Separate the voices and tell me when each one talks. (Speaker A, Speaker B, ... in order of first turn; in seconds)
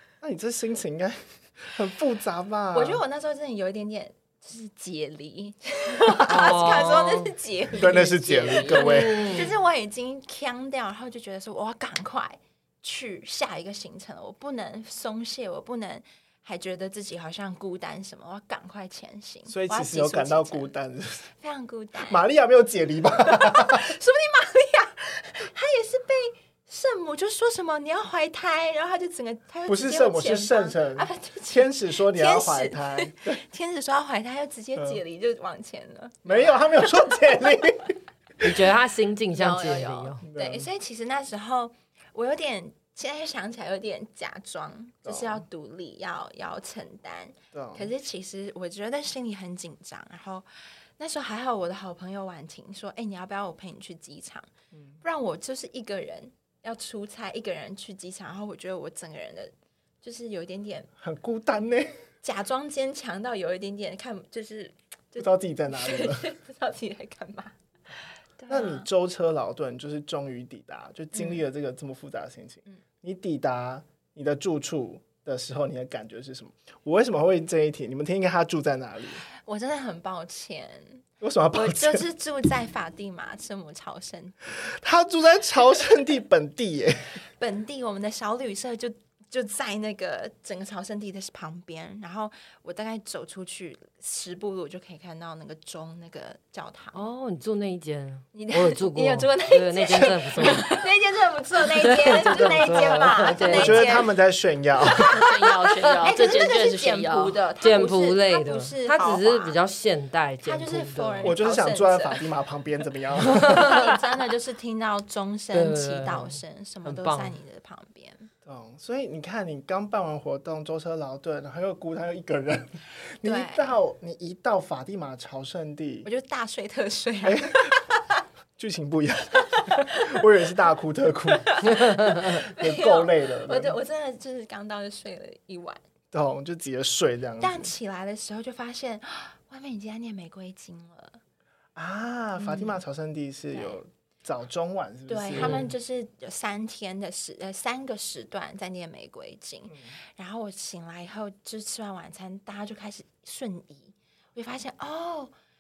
Speaker A: 0.2-3.0, 7.7-9.4, 19.5-21.3, 22.0-23.9, 29.7-33.4, 36.3-38.0, 40.2-40.7, 45.1-45.4, 47.5-47.9, 54.7-55.0, 61.0-62.0, 65.2-66.3, 68.5-79.2, 81.2-82.1, 84.5-87.2, 103.5-105.1, 111.2-113.6, 118.5-126.1, 127.2-127.8, 128.6-133.8, 136.1-137.7, 141.8-145.7, 149.7-150.0
Speaker B: 2.7-20.7, 21.4-22.2, 23.2-37.6, 39.3-50.5, 51.0-54.5, 55.0-60.9, 62.2-67.5, 68.4-68.9, 79.4-84.4, 87.4-97.0, 98.3-104.1, 104.9-105.2, 106.0-109.6, 110.4-112.2, 113.3-118.3, 123.2-123.8, 126.0-128.0, 129.5-130.2, 131.3-135.8, 137.4-141.2, 142.4-142.8, 143.5-143.8, 145.1-155.3
Speaker C: 6.3-7.3, 8.7-9.5, 38.4-40.2, 96.9-100.8, 101.7-104.0, 105.6-106.1, 107.6-111.4, 113.3-113.9, 115.5-117.4
Speaker D: 8.3-8.6, 105.1-107.4